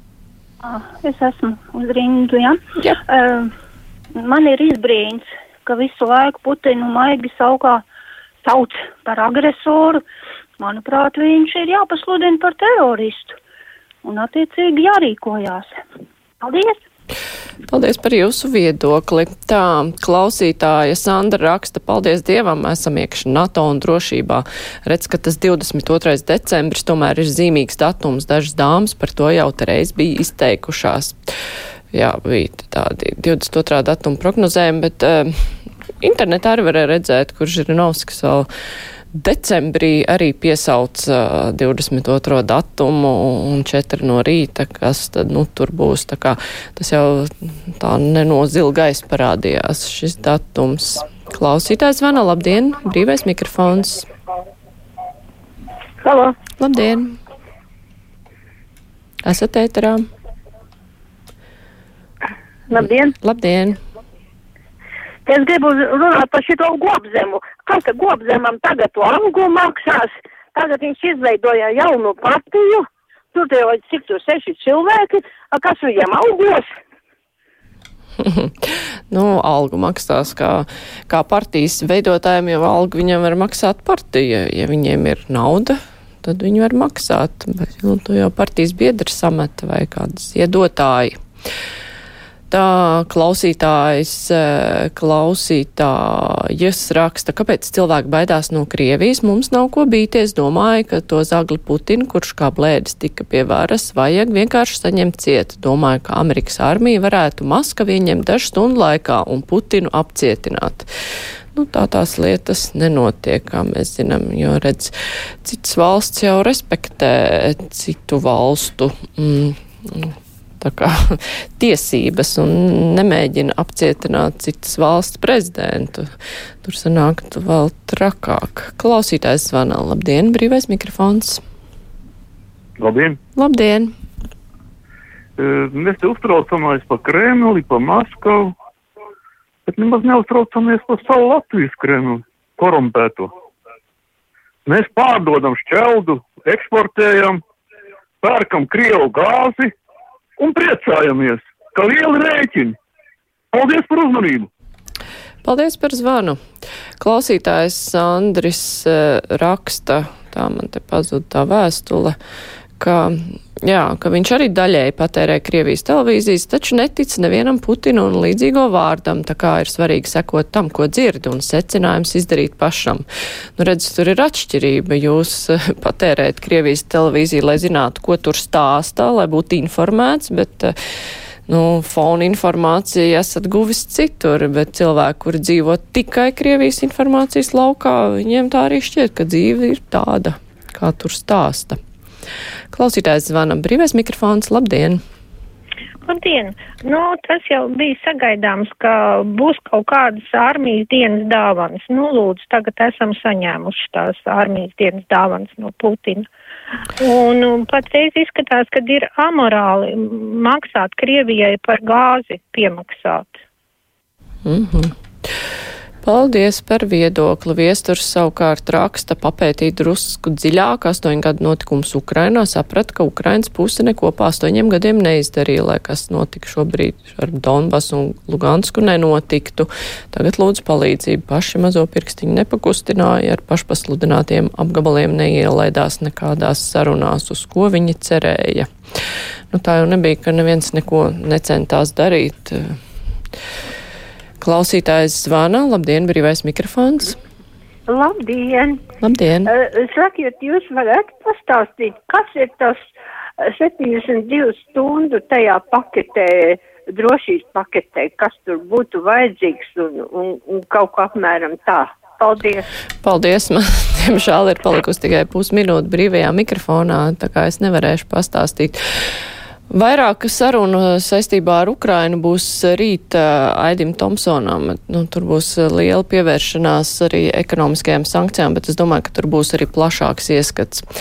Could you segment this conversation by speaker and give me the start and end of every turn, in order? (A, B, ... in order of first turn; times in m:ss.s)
0:00.6-0:03.5 A
0:04.2-0:07.8 A
0:08.4-0:10.0 A
0:10.6-0:13.4 A
0:14.0-0:15.8 A
0:16.4-0:16.8 A
0:17.7-0:31.2 B
0:31.9-0:35.3 B
0:36.0-0:38.5 B
0:39.1-0:54.1 B
0:56.0-0:56.4 C
0:56.6-0:57.2 B
0:59.2-1:00.0 B
1:02.7-1:03.1 C
1:03.2-1:03.8 B
1:05.3-1:16.7 C
1:18.2-1:31.2 B
1:32.5-1:50.9 B
1:51.5-1:54.9 B
1:55.4-2:06.1 B
2:06.6-2:11.4 B
2:12.8-2:13.2 D
2:13.4-2:13.9 B
2:15.4-2:18.6 D
2:19.7-2:23.3 D
2:24.7-2:27.4 D
2:28.2-2:29.7 D
2:30.4-2:32.8 D
2:33.5-2:34.5 D
2:35.4-2:36.4 B
2:37.0-2:42.2 B
2:42.8-2:53.0 B
2:53.6-3:00.7 B
3:01.5-3:11.8 B
3:12.7-3:15.0 B
3:16.1-3:26.3 E
3:27.0-3:33.4 E
3:34.4-3:34.9 B
3:36.0-3:58.7 B
3:59.5-4:02.8 B
4:04.4-4:07.2 B
4:07.9-4:08.8 F
4:09.0-4:09.5 B
4:09.5-4:12.8 F
4:13.4-4:22.6 F
4:23.0-4:28.8 B
4:29.7-4:40.8 B